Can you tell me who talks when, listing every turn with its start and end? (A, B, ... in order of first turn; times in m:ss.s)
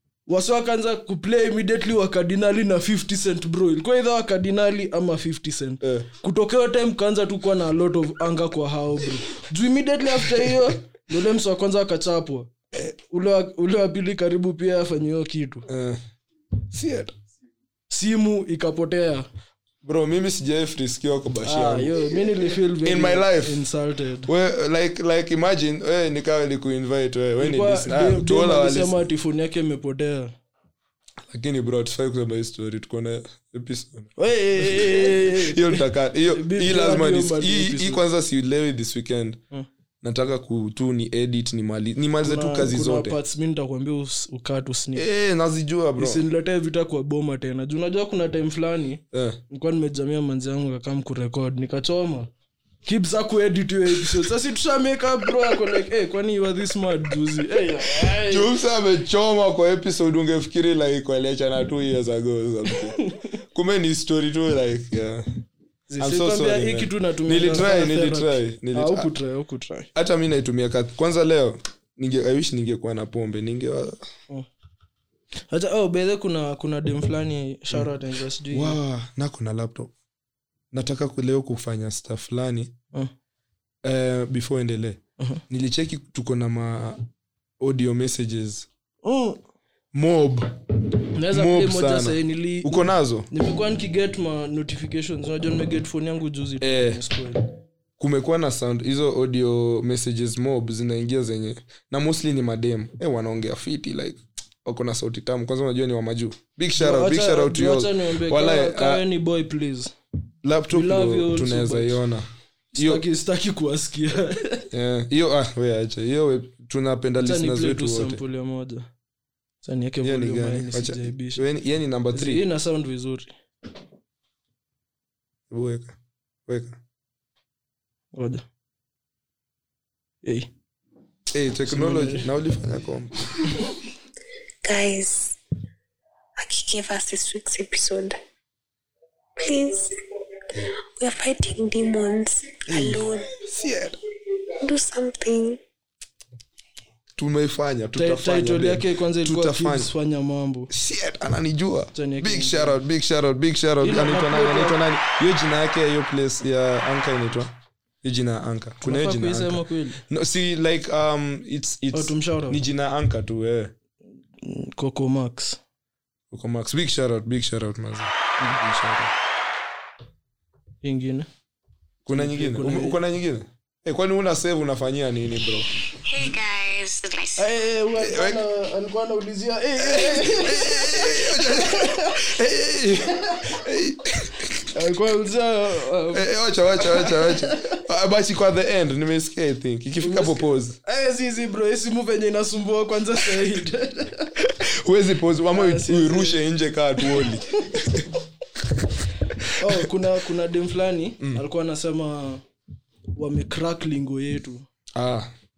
0:00.3-0:12.5 A
0:05.8-0:06.1 B
0:13.1-0:15.7 A
0:15.7-0:16.0 B
0:16.7-0:17.1 B
0:17.9-0:19.3 A
0:19.8-0:22.0 B
0:21.4-0:24.3 A
0:22.8-0:23.6 B
0:24.2-0:29.0 B
0:27.4-0:30.3 A
0:31.3-0:39.4 B
0:34.2-0:38.0 A
0:40.0-0:43.2 B
0:42.2-0:45.0 A
0:45.0-0:46.2 B
0:46.0-0:52.3 A
0:49.1-0:49.4 B
0:52.8-0:58.5 A
0:58.2-1:05.2 B
1:02.9-1:03.2 A
1:05.9-1:09.9 A
1:06.0-1:09.1 B
1:09.9-1:14.0 B
1:15.5-1:18.8 A
1:18.5-1:19.9 B
1:20.7-1:22.7 B
1:23.8-1:27.0 B
1:27.6-1:28.7 B
1:29.0-1:29.4 A
1:29.9-1:30.5 B
1:31.1-1:37.4 A
1:31.3-1:33.3 B
1:36.6-1:37.0 B
1:38.0-1:49.0 B
1:46.8-1:49.9 A
1:50.4-1:53.0 B
1:50.7-1:52.0 A
1:52.8-1:54.7 A
1:54.7-1:58.2 B
1:57.2-1:58.9 A
1:59.6-2:01.4 A
2:00.0-2:02.4 B
2:02.1-2:03.3 A
2:05.5-2:06.0 B
2:06.5-2:06.8 B
2:08.1-2:08.4 A
2:10.2-2:10.5 A
2:11.3-2:13.6 B
2:11.7-2:12.3 A
2:14.6-2:15.4 C
2:16.4-2:18.2 C
2:19.4-2:20.0 C
2:20.5-2:23.4 C
2:22.7-2:23.0 A
2:23.3-2:24.0 B
2:24.6-2:25.6 C
2:27.2-2:29.9 B
2:28.0-2:30.7 A
2:30.7-2:43.7 B
2:32.0-2:32.8 A
2:33.8-2:34.8 A
2:38.8-2:40.0 A
2:41.9-2:42.6 A
2:44.4-2:45.6 A
2:46.3-2:49.1 B
2:50.8-2:51.3 A
2:52.0-2:55.7 B
2:52.1-2:53.0 A
2:56.1-2:57.3 C
2:57.4-3:02.2 A
2:58.0-2:58.4 B
2:59.8-3:04.6 B
3:04.7-3:06.2 A
3:06.1-3:10.8 B
3:06.8-3:07.8 A
3:10.0-3:14.4 A
3:14.4-3:18.8 B
3:15.5-3:16.4 A
3:17.1-3:17.8 A
3:19.4-3:19.8 B
3:19.6-3:22.4 A
3:23.1-3:24.6 A
3:25.0-3:25.3 B